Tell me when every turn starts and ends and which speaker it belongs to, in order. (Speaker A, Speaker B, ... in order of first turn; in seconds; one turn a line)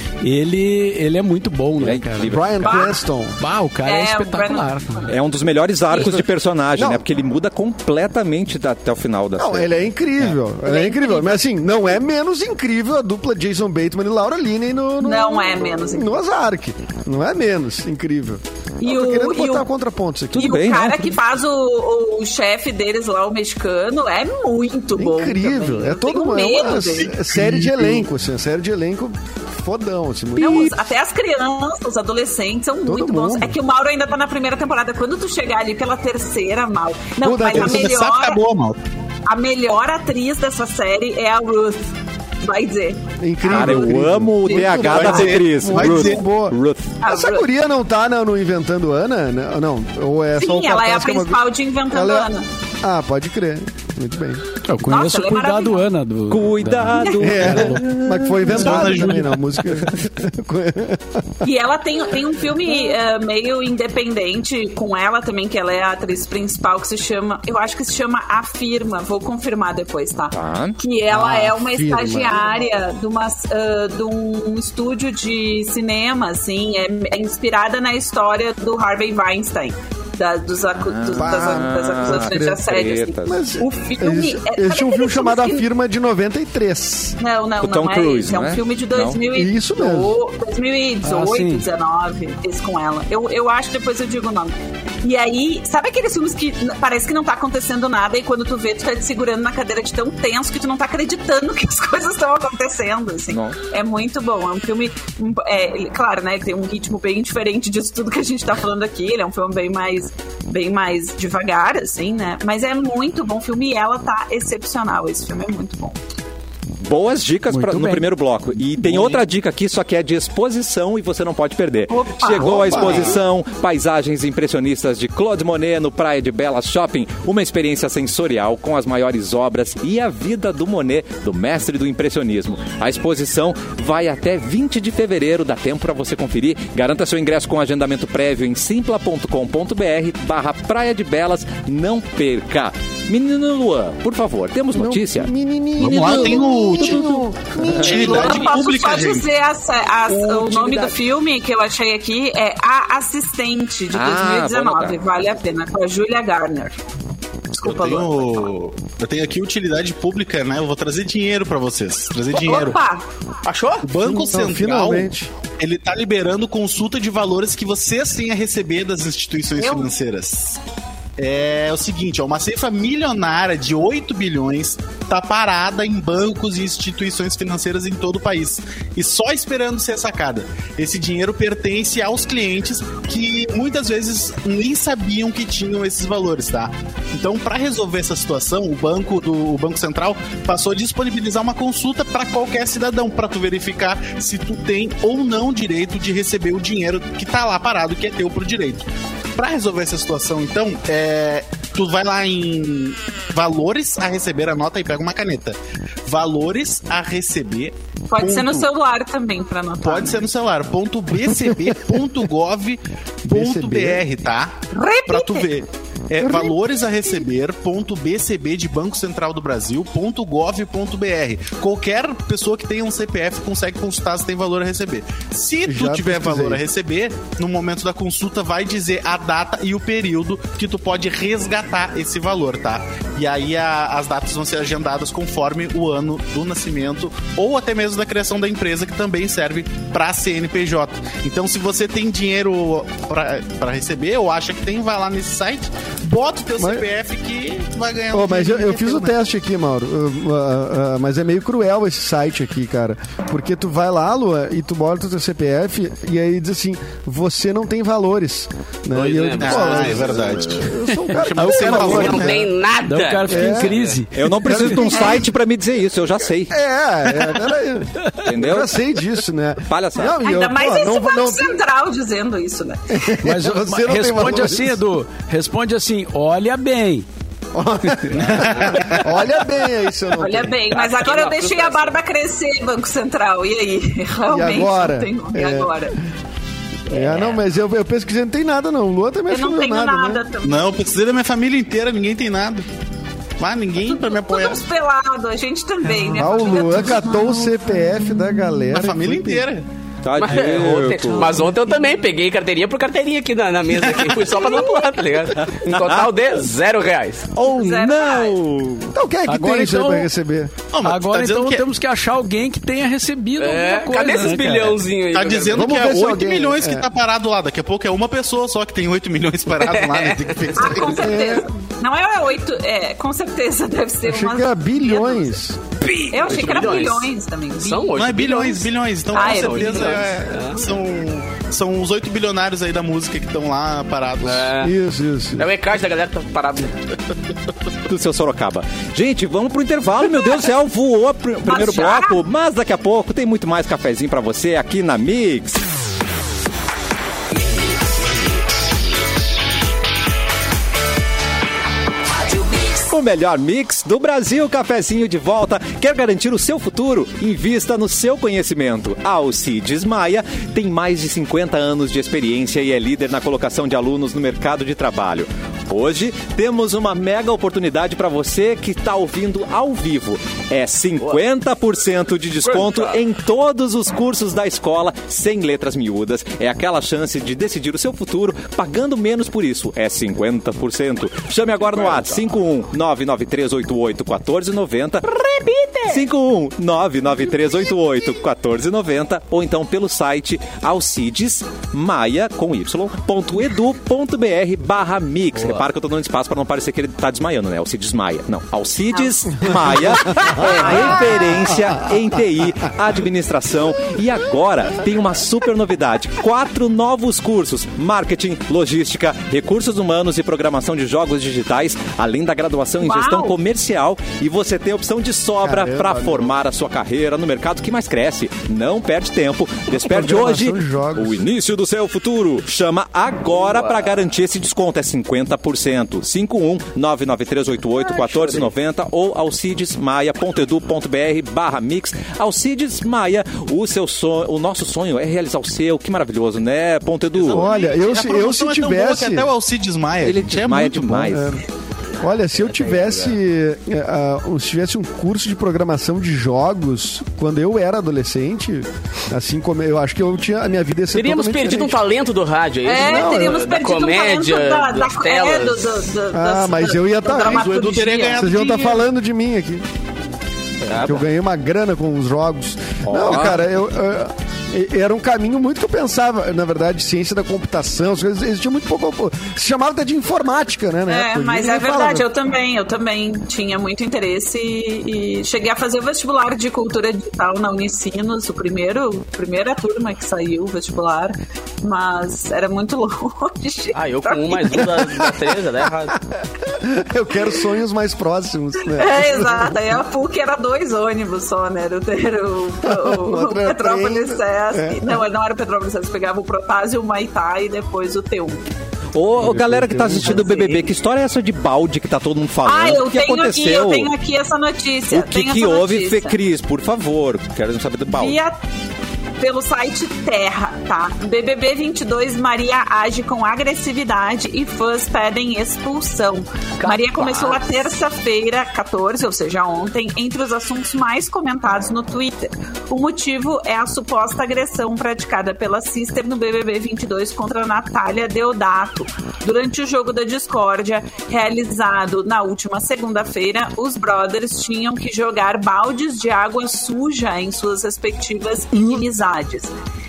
Speaker A: 0.2-2.7
Speaker B: 1.8-2.8
Speaker C: 2.3-3.4
Speaker D: 2.6-3.0
Speaker A: 3.4-5.0
Speaker D: 3.8-5.2
Speaker B: 5.1-9.7
Speaker D: 5.9-6.2
Speaker C: 6.8-7.0
Speaker C: 9.4-20.5
Speaker D: 10.6-11.4
Speaker D: 15.0-16.2
Speaker D: 18.8-19.7
Speaker B: 20.3-21.1
Speaker D: 20.4-27.2
Speaker C: 24.9-30.9
Speaker E: 27.3-27.9
Speaker D: 30.4-38.4
Speaker C: 32.9-33.6
Speaker C: 37.2-37.9
Speaker E: 37.5-38.8
Speaker D: 39.3-41.8
Speaker D: 42.4-45.4
Speaker C: 43.2-52.3
Speaker B: 43.5-47.0
Speaker E: 44.9-46.3
Speaker D: 47.0-47.5
Speaker D: 50.4-52.5
Speaker C: 52.8-54.4
Speaker A: 54.6-57.9
Speaker D: 54.9-55.9
Speaker B: 56.3-59.1
Speaker D: 57.0-57.4
Speaker C: 57.2-61.5
Speaker E: 58.5-59.4
Speaker D: 61.4-85.6
Speaker B: 70.3-70.8
Speaker C: 71.1-72.6
Speaker B: 80.8-83.4
Speaker C: 81.2-82.6
Speaker C: 83.3-87.2
Speaker D: 87.2-116.0
Speaker B: 87.6-89.2
Speaker C: 89.3-90.2
Speaker A: 91.0-91.7
Speaker B: 103.3-103.6
Speaker B: 116.8-145.3
Speaker A: 117.5-119.1
Speaker D: 121.9-123.2
Speaker C: 122.4-123.2
Speaker C: 144.7-148.4
Speaker E: 145.8-147.2
Speaker B: 145.8-147.8
Speaker E: 147.8-149.3
Speaker D: 147.8-156.8
Speaker F: 150.1-150.9
Speaker B: 153.9-155.0
Speaker D: 157.5-158.5
Speaker E: 157.6-162.8
Speaker D: 162.4-163.0
Speaker F: 163.4-163.9
Speaker E: 163.8-170.6
Speaker C: 164.0-165.3
Speaker D: 169.6-169.9
Speaker E: 171.2-208.7
Speaker D: 208.1-210.3
Speaker E: 209.8-249.2
Speaker C: 211.5-212.0
Speaker C: 213.3-214.0
Speaker D: 214.7-215.5
Speaker C: 216.3-216.5
Speaker C: 225.7-226.6
Speaker C: 246.6-246.8
Speaker C: 248.1-262.5
Speaker F: 258.9-260.4
Speaker E: 259.4-262.4
Speaker A: 260.9-264.9
Speaker F: 261.5-263.9
Speaker C: 263.3-263.8
Speaker B: 264.1-266.6
Speaker C: 264.4-265.2
Speaker C: 266.5-271.6
Speaker B: 268.2-268.8
Speaker B: 269.7-270.2
Speaker D: 270.0-273.1
Speaker C: 272.9-274.8
Speaker A: 273.2-277.1
Speaker C: 277.5-280.6
Speaker E: 278.1-279.2
Speaker D: 280.2-285.9
Speaker F: 280.7-281.9
Speaker C: 284.3-285.9
Speaker C: 286.9-290.2
Speaker F: 286.9-287.4
Speaker D: 289.3-290.7
Speaker E: 290.4-292.7
Speaker E: 293.4-294.6
Speaker D: 293.9-297.5
Speaker C: 296.1-299.4
Speaker E: 298.7-299.6
Speaker B: 300.0-301.5
Speaker F: 300.2-307.3
Speaker D: 304.4-304.8
Speaker B: 305.3-306.1
Speaker B: 307.4-308.9
Speaker D: 307.5-308.4
Speaker C: 308.9-310.5
Speaker A: 309.3-310.1
Speaker E: 310.7-311.6
Speaker A: 310.8-314.8
Speaker F: 313.4-315.7
Speaker E: 315.1-321.2
Speaker C: 315.5-316.9
Speaker F: 319.6-320.8
Speaker D: 320.6-325.3
Speaker C: 321.0-321.5
Speaker C: 324.0-325.8
Speaker F: 325.8-328.5
Speaker D: 326.1-330.0
Speaker E: 327.9-334.6
Speaker F: 329.1-330.6
Speaker F: 334.2-334.7
Speaker C: 334.6-335.5
Speaker F: 335.4-336.9
Speaker B: 337.9-345.6
Speaker D: 341.5-342.2
Speaker B: 352.8-385.1
Speaker F: 372.4-373.0
Speaker F: 381.6-382.2
Speaker F: 385.1-386.0
Speaker B: 385.9-437.5
Speaker D: 398.9-399.2
Speaker C: 399.4-402.0
Speaker D: 400.6-401.2
Speaker D: 412.8-413.4
Speaker C: 415.4-416.4
Speaker C: 419.8-421.2
Speaker F: 423.3-423.9
Speaker F: 427.8-428.5
Speaker E: 437.1-441.1
Speaker C: 437.3-439.3
Speaker B: 440.0-441.4
Speaker C: 440.9-441.4
Speaker C: 442.0-451.8
Speaker F: 442.3-443.2
Speaker F: 450.9-455.9
Speaker D: 452.6-458.3
Speaker C: 452.8-453.4
Speaker C: 456.1-457.6
Speaker E: 457.3-458.9
Speaker C: 458.1-459.6
Speaker F: 460.6-461.1
Speaker C: 460.7-472.1
Speaker B: 462.9-463.4
Speaker D: 470.9-484.8
Speaker F: 483.7-486.0
Speaker C: 486.1-489.8
Speaker D: 488.8-498.4
Speaker C: 492.6-495.1
Speaker B: 498.9-503.9
Speaker C: 499.2-500.4
Speaker D: 502.4-506.2
Speaker B: 504.9-508.2
Speaker D: 507.9-508.4
Speaker D: 509.2-539.5
Speaker F: 516.6-517.6